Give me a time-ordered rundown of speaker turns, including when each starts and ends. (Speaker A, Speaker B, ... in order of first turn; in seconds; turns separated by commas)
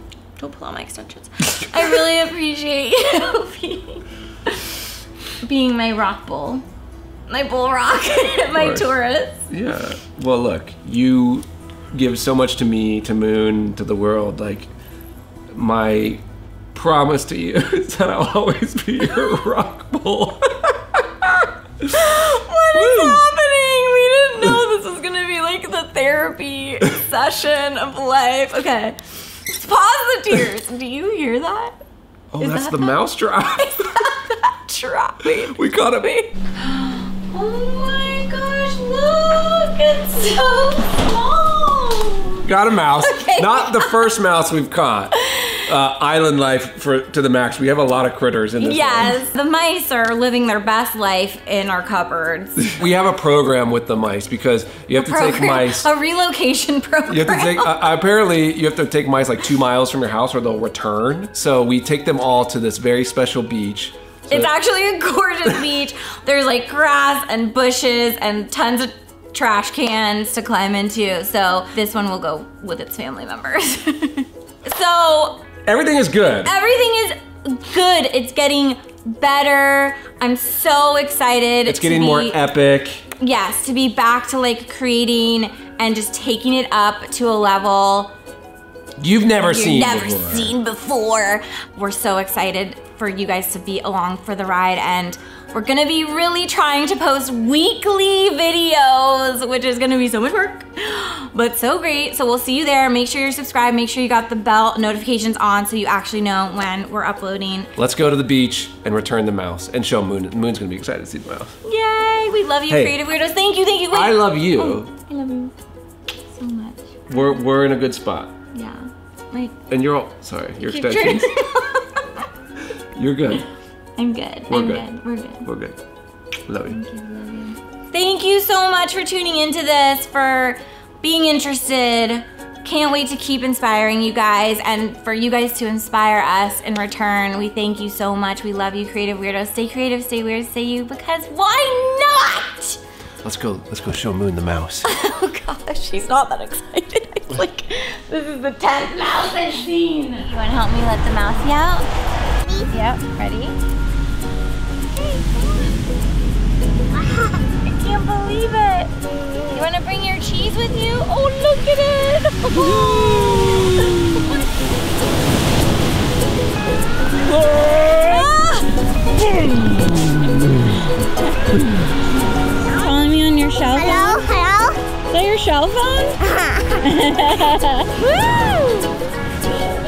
Speaker A: 0.4-4.9, Speaker A: 5.4-6.6, Speaker A: 7.3-9.5, Speaker B: 8.5-8.9, Speaker B: 9.5-14.7, Speaker B: 15.5-16.2, Speaker B: 16.7-21.9, Speaker A: 21.9-31.8, Speaker B: 22.7-23.2, Speaker B: 32.3-34.0, Speaker A: 32.4-42.4, Speaker B: 35.2-36.1, Speaker B: 42.4-49.2, Speaker A: 43.0-44.1, Speaker A: 45.1-45.7, Speaker A: 48.6-52.7, Speaker B: 52.7-55.9, Speaker A: 54.9-57.8, Speaker B: 57.1-64.5, Speaker A: 64.3-75.4, Speaker B: 75.7-76.5, Speaker A: 76.4-82.4, Speaker B: 81.7-83.1, Speaker A: 83.2-88.1, Speaker B: 89.0-90.5, Speaker A: 89.4-107.7, Speaker B: 107.8-111.5, Speaker A: 111.6-115.5, Speaker B: 112.7-113.0, Speaker B: 113.9-114.9, Speaker A: 116.3-116.9, Speaker B: 117.1-118.3, Speaker A: 118.5-119.6, Speaker B: 119.7-121.3, Speaker A: 120.6-122.2, Speaker B: 122.9-123.5, Speaker A: 124.0-125.5, Speaker B: 124.5-124.9, Speaker B: 125.4-125.8, Speaker B: 126.5-126.8, Speaker A: 126.7-142.8, Speaker B: 143.2-144.9, Speaker A: 144.8-151.9, Speaker A: 152.6-153.6, Speaker A: 154.9-155.8, Speaker A: 156.9-158.9, Speaker A: 159.5-164.4, Speaker B: 162.7-163.5, Speaker B: 167.4-168.2, Speaker A: 167.9-168.8, Speaker A: 171.0-171.6, Speaker A: 172.6-178.9